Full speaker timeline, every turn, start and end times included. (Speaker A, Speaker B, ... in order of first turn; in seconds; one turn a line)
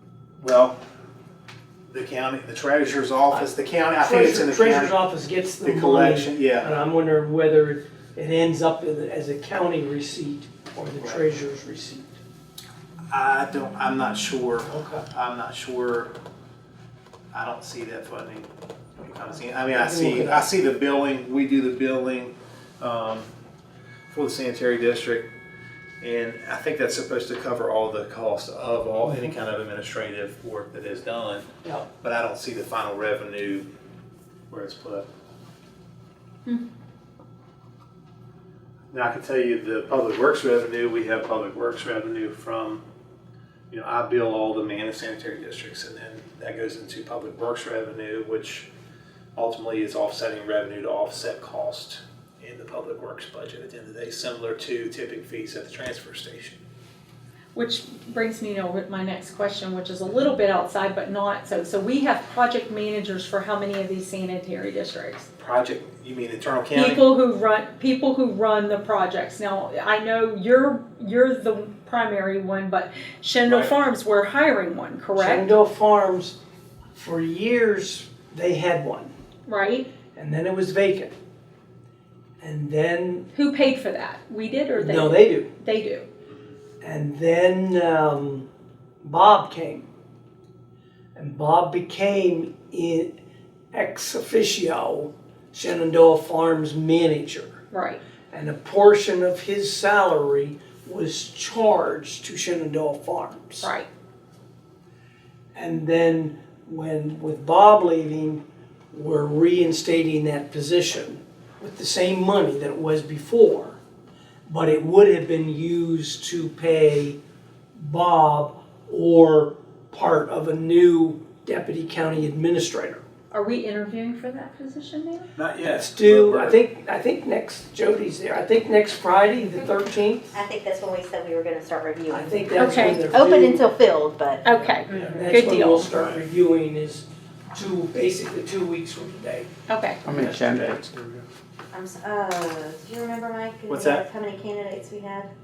Speaker A: 0.4-0.8
Speaker A: 1.9-5.0
Speaker B: 4.0-12.2
Speaker A: 5.6-6.7
Speaker A: 13.1-16.1
Speaker B: 14.7-15.0
Speaker A: 17.3-18.5
Speaker A: 19.0-23.3
Speaker B: 19.7-20.4
Speaker A: 24.1-25.3
Speaker A: 26.0-31.4
Speaker B: 29.0-29.3
Speaker A: 32.0-33.6
Speaker A: 34.5-35.0
Speaker A: 38.9-42.8
Speaker A: 43.7-48.7
Speaker A: 49.4-56.6
Speaker C: 57.5-65.3
Speaker A: 65.4-67.0
Speaker C: 66.7-75.5
Speaker A: 73.5-73.7
Speaker B: 75.2-76.4
Speaker B: 76.9-79.1
Speaker C: 79.5-79.9
Speaker B: 80.1-81.1
Speaker B: 82.4-83.3
Speaker C: 83.3-86.1
Speaker B: 84.8-85.5
Speaker B: 86.8-88.5
Speaker B: 89.0-89.9
Speaker B: 91.2-93.1
Speaker B: 93.7-97.6
Speaker C: 97.7-98.0
Speaker B: 98.3-103.7
Speaker C: 103.6-103.9
Speaker B: 105.5-113.8
Speaker B: 114.5-117.2
Speaker B: 117.7-123.0
Speaker C: 123.3-125.3
Speaker A: 125.4-126.6
Speaker B: 125.6-130.3
Speaker D: 130.3-134.4
Speaker B: 132.1-133.7
Speaker C: 132.6-133.0
Speaker C: 134.4-135.9
Speaker B: 134.9-139.5
Speaker A: 135.9-136.2
Speaker C: 139.7-140.0
Speaker B: 140.0-140.8
Speaker D: 140.0-145.3
Speaker A: 143.7-144.1